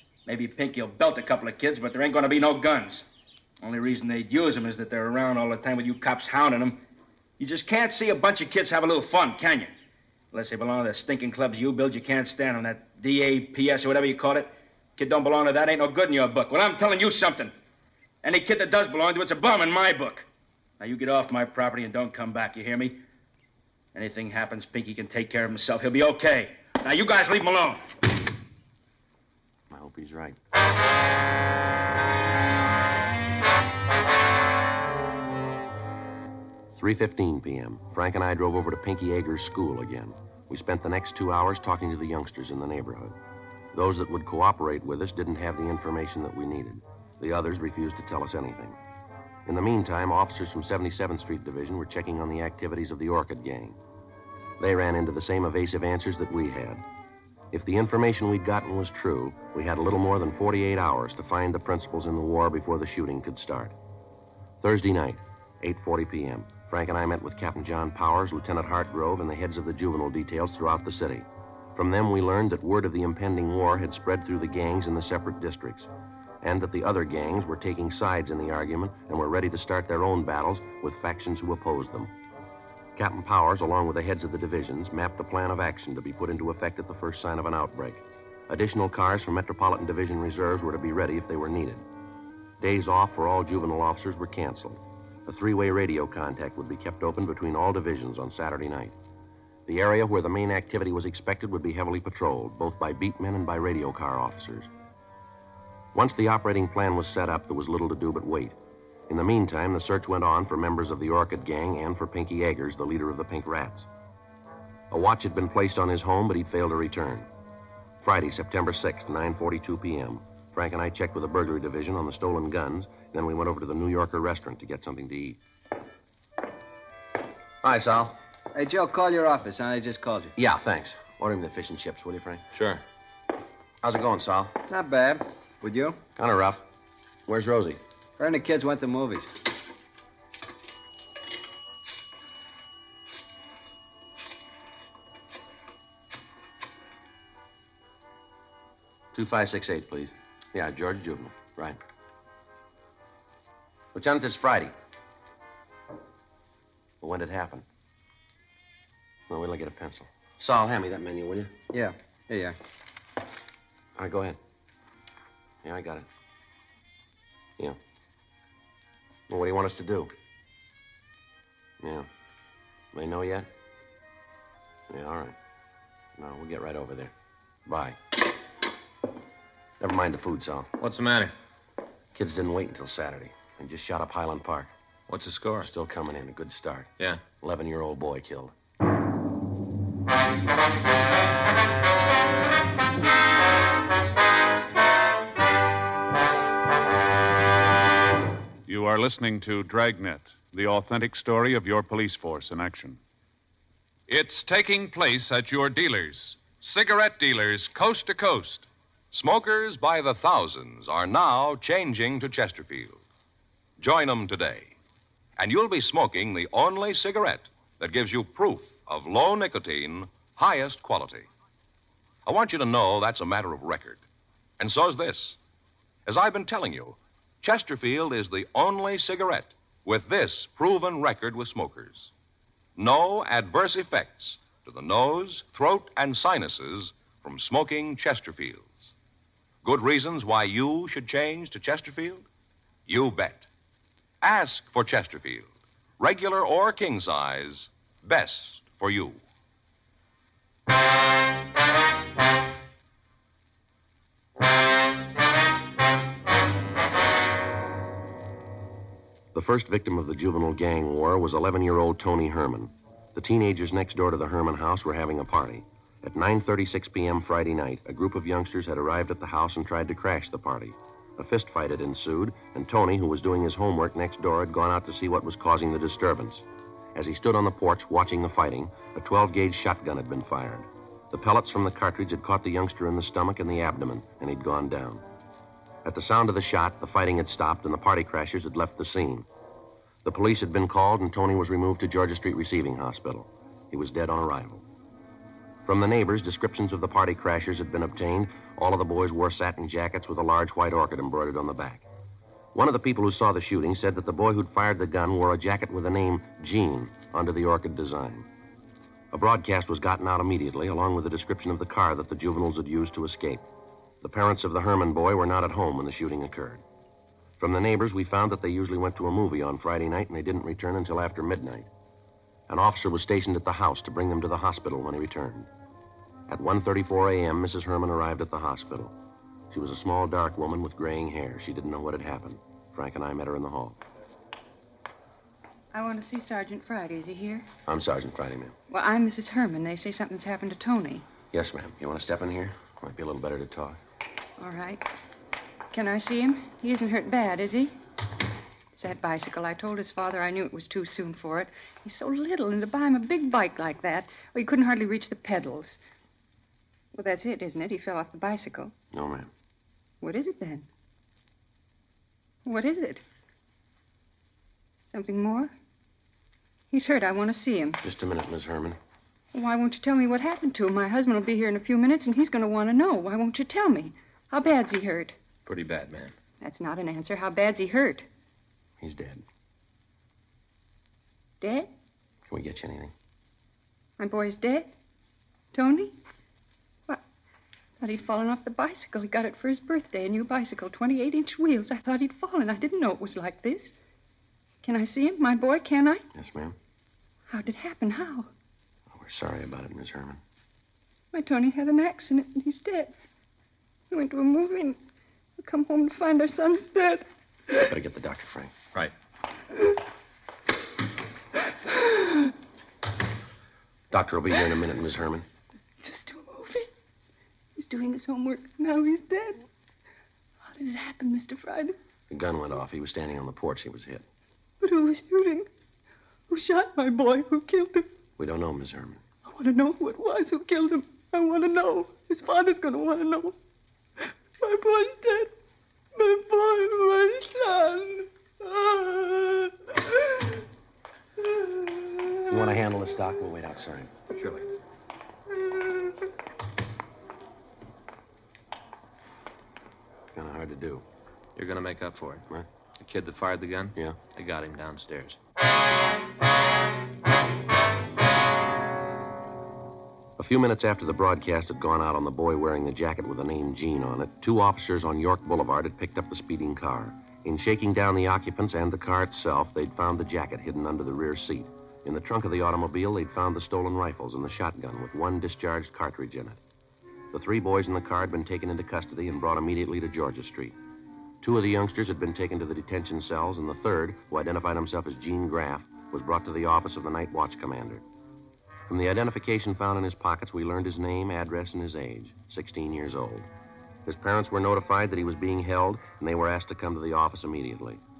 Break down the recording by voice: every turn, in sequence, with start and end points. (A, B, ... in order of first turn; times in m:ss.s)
0:00.2-0:03.0 A
0:03.6-0:06.8 A
0:07.4-0:09.7 A
0:10.3-0:17.5 A
0:18.2-0:20.2 A
0:20.8-0:23.0 A
0:23.9-0:27.9 A
0:29.7-0:30.4 B
0:36.8-0:43.2 B
0:43.7-0:48.8 B
0:49.5-0:53.8 B
0:54.6-0:56.8 B
0:57.5-1:03.8 B
1:04.6-1:15.9 B
1:16.4-1:22.1 B
1:23.0-1:31.8 B
1:32.6-1:39.0 B
1:39.7-1:44.7 B
1:45.9-1:48.5 B
1:49.1-1:53.9 B
1:54.9-1:57.3 B
1:58.0-2:05.4 B
2:07.6-2:08.2 B
2:08.5-2:10.3 C
2:10.4-2:12.4 B
2:12.5-2:12.8 D
2:13.8-2:14.6 B
2:14.7-2:16.0 C
2:16.2-2:16.6 B
2:17.3-2:17.8 B
2:18.2-2:19.4 C
2:29.1-2:31.8 B
2:33.9-2:34.7 B
2:37.0-2:37.6 B
2:39.3-2:41.5 B
2:41.7-2:42.6 C
2:44.0-2:44.4 B
2:45.6-2:46.0 B
2:49.3-2:50.1 B
2:51.8-2:52.1 B
2:52.9-2:53.5 B
2:54.9-2:55.4 B
2:56.2-2:57.1 B
2:57.6-2:58.0 B
2:59.8-3:00.7 B
3:00.8-3:01.3 D
3:02.1-3:04.7 B
3:05.1-3:05.7 D
3:05.6-3:06.9 B
3:07.4-3:08.5 B
3:18.6-3:23.0 E
3:24.1-3:28.7 E
3:29.1-3:33.0 F
3:33.8-3:34.8 F
3:35.4-3:41.3 F
3:42.2-3:44.0 F
3:44.6-3:45.4 F
3:46.0-3:52.1 F
3:52.8-3:58.9 F
3:59.6-4:02.2 F
4:02.9-4:03.5 F
4:04.2-4:09.2 F
4:19.3-4:45.0 B
4:45.8-4:49.3 B
4:50.0-4:54.6 B
4:55.6-5:01.8 B
5:02.5-5:08.3 B
5:09.1-5:13.4 B
5:14.0-5:16.6 B
5:17.4-5:21.7 B
5:22.5-5:25.5 B
5:26.3-5:29.0 B
5:29.5-5:33.8 B
5:35.7-5:37.5 G
5:37.7-5:38.5 B
5:38.7-5:41.1 G
5:41.3-5:43.8 B
5:44.4-5:44.8 G
5:45.7-5:47.8 G
5:48.7-5:55.8 G
5:56.9-5:58.7 G
5:58.9-5:59.3 B
6:00.0-6:00.7 G
6:02.4-6:03.0 G
6:04.8-6:05.5 G
6:06.7-6:07.8 G
6:07.8-6:08.8 B
6:09.3-6:15.2 G
6:15.5-6:16.1 D
6:16.4-6:18.0 G
6:18.8-6:19.2 B
6:21.4-6:21.7 G
6:22.3-6:22.9 B
6:24.0-6:24.7 G
6:25.5-6:26.0 G
6:27.8-6:33.7 G
6:34.6-6:36.0 G
6:36.1-6:36.6 B
6:37.3-6:38.3 G
6:38.9-6:40.2 B
6:41.1-6:42.9 G
6:43.9-6:44.8 G
6:45.4-6:47.6 G
6:47.6-6:48.5 B
6:51.7-6:52.3 G
6:53.9-6:55.2 B
6:55.8-6:56.7 G
6:57.6-6:59.4 G
7:00.5-7:01.8 G
7:02.1-7:04.0 B
7:04.6-7:05.5 G
7:06.3-7:07.9 G
7:08.2-7:09.0 B
7:09.2-7:13.4 G
7:14.0-7:15.3 G
7:16.0-7:20.4 G
7:21.2-7:22.3 G
7:22.3-7:23.9 B
7:30.2-7:30.8 B
7:31.4-7:32.2 D
7:32.8-7:35.2 D
7:40.2-7:56.4 B
7:57.1-8:00.5 B
8:01.2-8:07.8 B
8:08.7-8:13.3 B
8:13.8-8:17.8 B